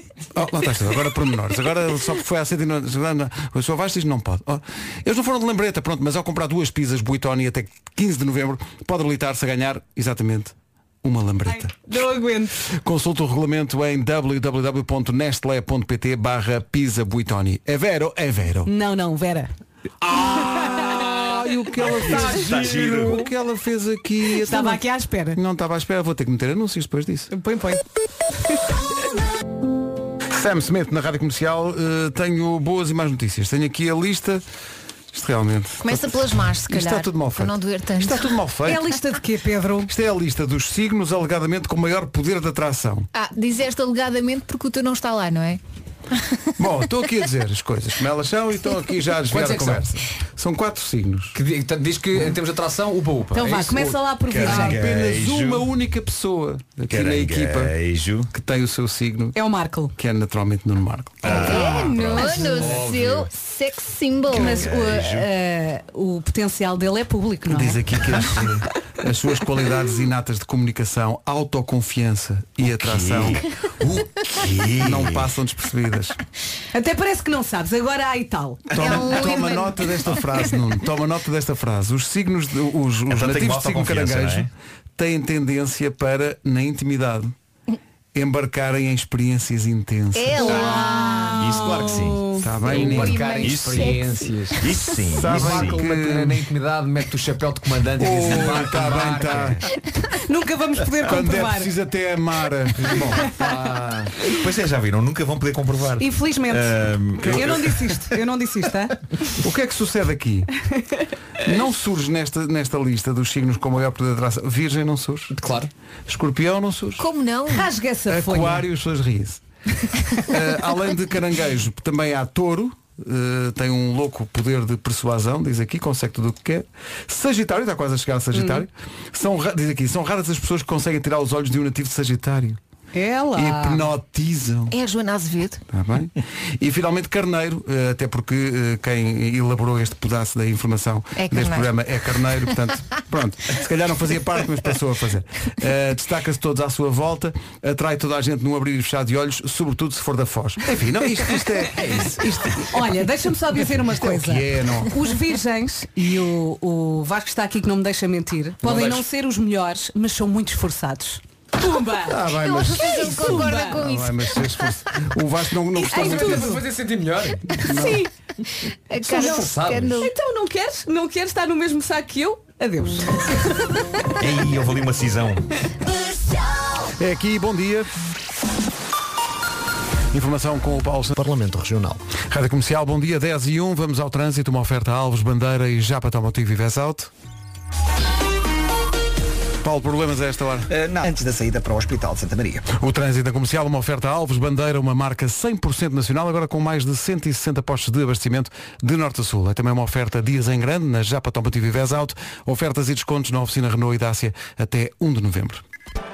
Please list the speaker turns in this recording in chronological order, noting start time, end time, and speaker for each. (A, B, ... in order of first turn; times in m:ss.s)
0:00.3-0:11.8 A
0:11.5-0:12.6 B
0:12.6-0:18.7 A
0:18.6-0:19.5 B
0:20.0-0:24.8 A
0:21.8-0:23.3 C
0:24.4-0:25.4 B
0:25.3-0:27.3 A
0:27.3-0:27.8 B
0:30.3-0:34.4 A
0:35.1-0:36.1 A
0:35.8-0:38.4 D
0:36.7-0:38.9 A
0:38.6-0:39.9 B
0:39.9-0:43.1 A
0:43.1-0:46.5 D
0:46.6-0:51.4 A
0:49.3-0:49.9 E
0:51.3-0:54.1 E
0:53.3-0:54.8 B
0:54.3-0:55.7 C
0:54.4-0:57.7 A
0:56.9-0:58.3 C
0:58.3-0:59.4 A
0:59.3-0:59.9 B
1:00.0-1:01.8 A
1:01.2-1:02.4 C
1:01.2-1:04.7 D
1:02.6-1:03.3 A
1:04.3-1:08.4 B
1:04.6-1:05.3 C
1:07.5-1:16.2 A
1:12.7-1:13.4 C
1:14.3-1:15.3 C
1:16.7-1:18.6 B
1:18.7-1:27.3 A
1:18.7-1:20.2 D
1:23.1-1:24.5 C
1:28.1-1:30.6 A
1:30.1-1:31.9 D
1:30.4-1:32.4 B
1:31.4-1:32.3 C
1:32.4-1:33.2 A
1:32.6-1:34.6 E
1:32.7-1:34.8 D
1:33.3-1:34.0 C
1:34.6-1:35.8 C
1:35.1-1:36.4 A
1:35.3-1:39.6 E
1:38.0-1:39.6 A
1:40.1-1:41.7 B
1:41.0-1:43.3 A
1:42.9-1:44.1 E
1:44.3-1:48.1 C
1:46.0-1:49.0 B
1:49.3-1:50.5 A
1:51.4-1:55.4 A
1:55.3-1:55.7 E
1:56.1-1:57.1 A
1:57.0-1:57.7 D
1:57.5-1:58.6 B
1:58.1-1:59.4 A
2:00.2-2:12.6 A
2:08.3-2:08.6 B
2:12.9-2:13.9 B
2:13.3-2:14.7 A
2:14.7-2:15.6 D
2:15.7-2:32.8 A
2:21.2-2:21.7 D
2:32.5-2:43.8 B
2:34.0-2:35.0 A
2:38.6-2:39.0 E
2:42.0-2:46.6 A
2:42.2-2:44.8 D
2:45.8-2:46.6 B
2:45.8-2:47.5 E
2:47.5-2:48.0 A
2:47.6-2:48.1 B
2:48.9-2:50.1 D
2:49.0-2:53.9 B
2:49.1-2:50.1 E
2:54.2-2:55.5 C
2:57.0-2:57.9 A
3:00.1-3:01.1 A
3:02.2-3:07.1 A
3:09.6-3:10.7 A
3:10.7-3:12.7 F
3:12.7-3:25.6 A